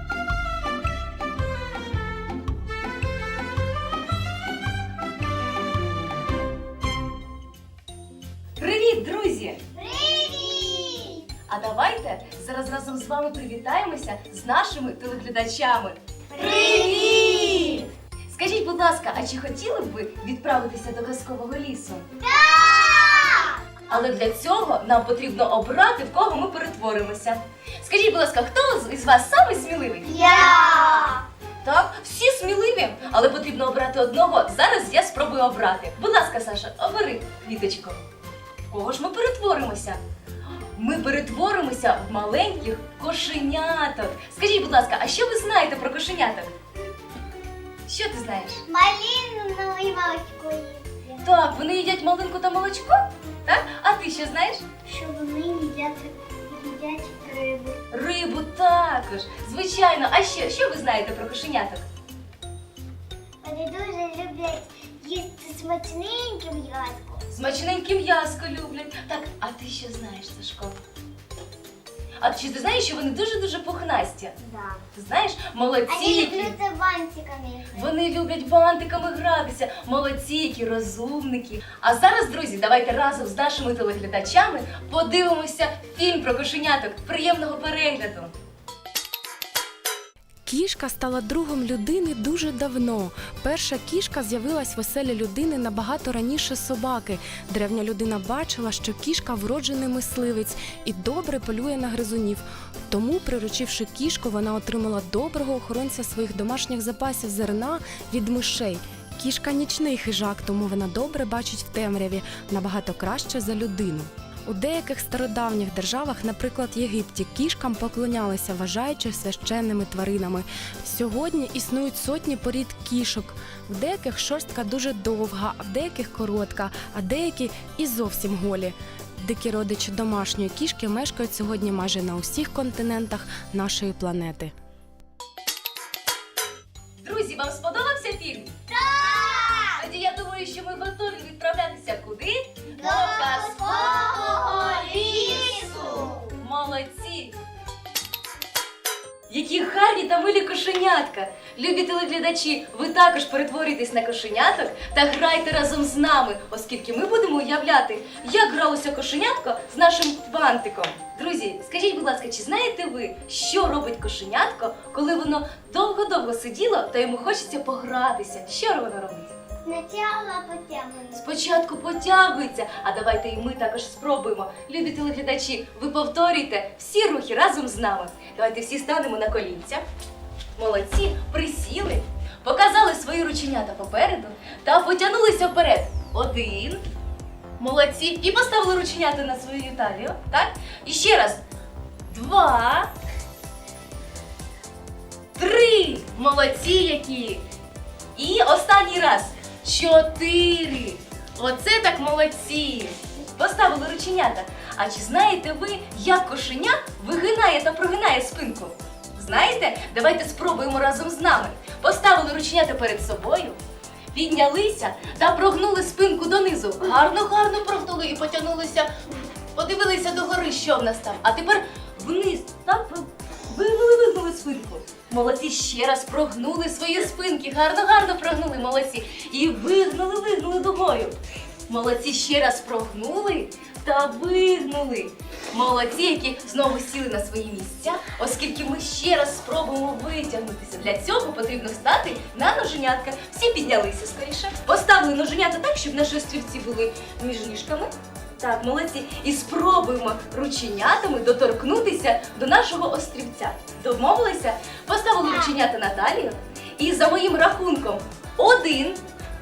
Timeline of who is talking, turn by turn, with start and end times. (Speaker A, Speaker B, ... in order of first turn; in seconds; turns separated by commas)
Speaker A: 8.6-9.6, Speaker B: 9.7-11.2, Speaker A: 11.5-22.1, Speaker B: 16.3-17.8, Speaker B: 22.2-23.6, Speaker A: 23.9-30.2, Speaker B: 30.0-31.2, Speaker A: 31.6-38.0, Speaker A: 38.7-40.0, Speaker A: 40.7-46.5, Speaker A: 47.9-48.6, Speaker B: 48.7-51.1, Speaker A: 51.2-54.6, Speaker B: 54.9-57.8, Speaker A: 57.9-61.8, Speaker B: 63.4-67.2, Speaker A: 67.3-70.8, Speaker A: 72.2-74.3, Speaker B: 74.4-74.8, Speaker A: 74.9-76.5, Speaker B: 75.9-77.9, Speaker A: 77.7-88.3, Speaker C: 90.5-134.5, Speaker A: 137.0-138.6, Speaker B: 138.7-139.8, Speaker A: 139.8-145.5, Speaker B: 142.7-146.3, Speaker A: 146.3-147.3, Speaker A: 149.3-169.3, Speaker B: 169.6-171.2, Speaker A: 171.1-179.8, Speaker A: 180.6-186.8, Speaker A: 187.6-191.4, Speaker A: 192.1-192.9, Speaker A: 195.3-197.4, Speaker A: 198.2-213.6, Speaker A: 214.1-218.9, Speaker A: 219.5-231.2, Speaker A: 231.7-259.0